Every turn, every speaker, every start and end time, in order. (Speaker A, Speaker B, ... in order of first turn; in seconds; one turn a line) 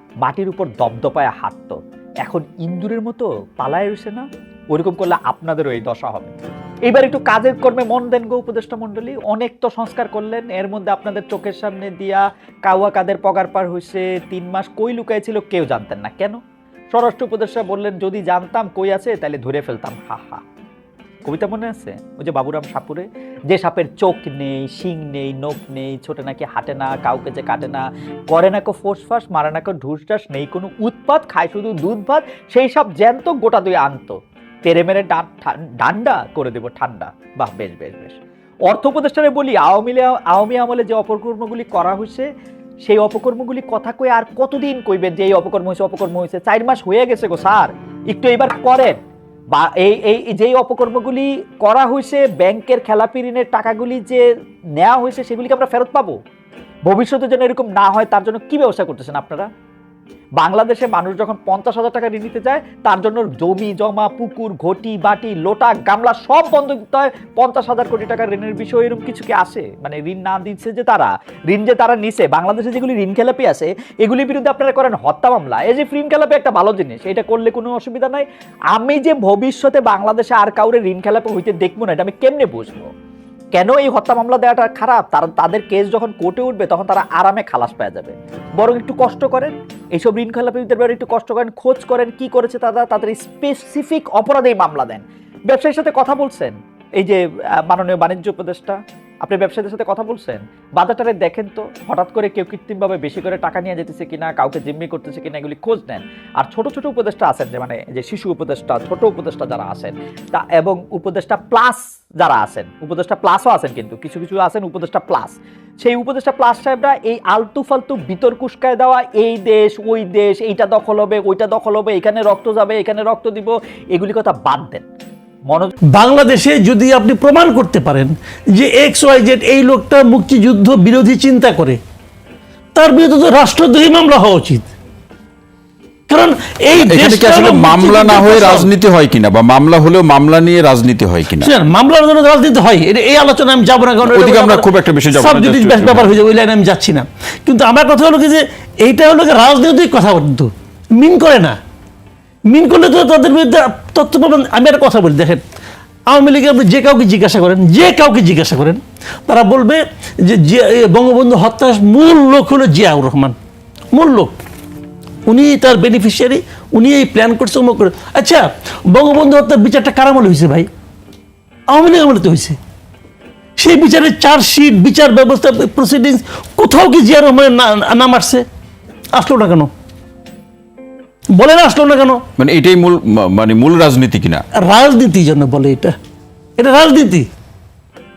Speaker A: 0.2-6.3
Speaker A: 6.9-16.4
Speaker A: 16.9-20.4
Speaker A: 21.2-42.3
Speaker A: 42.9-49.0
Speaker A: 49.5-54.2
Speaker A: 54.8-56.2
Speaker A: 56.9-59.5
Speaker A: 60.4-82.9
Speaker A: 83.5-124.8
Speaker B: 125.9-131.8
Speaker B: 132.7-134.7
Speaker B: 136.1-138.7
Speaker C: 136.8-141.5
Speaker B: 141.4-151.6
Speaker C: 144.0-146.2
Speaker B: 152.5-155.4
Speaker B: 156.1-163.3
Speaker B: 163.9-164.4
Speaker B: 165.2-170.7
Speaker B: 171.7-172.6
Speaker B: 173.6-178.4
Speaker B: 179.1-179.7
Speaker B: 181.3-182.2
Speaker C: 182.4-184.4
Speaker B: 184.5-185.9
Speaker B: 186.6-187.3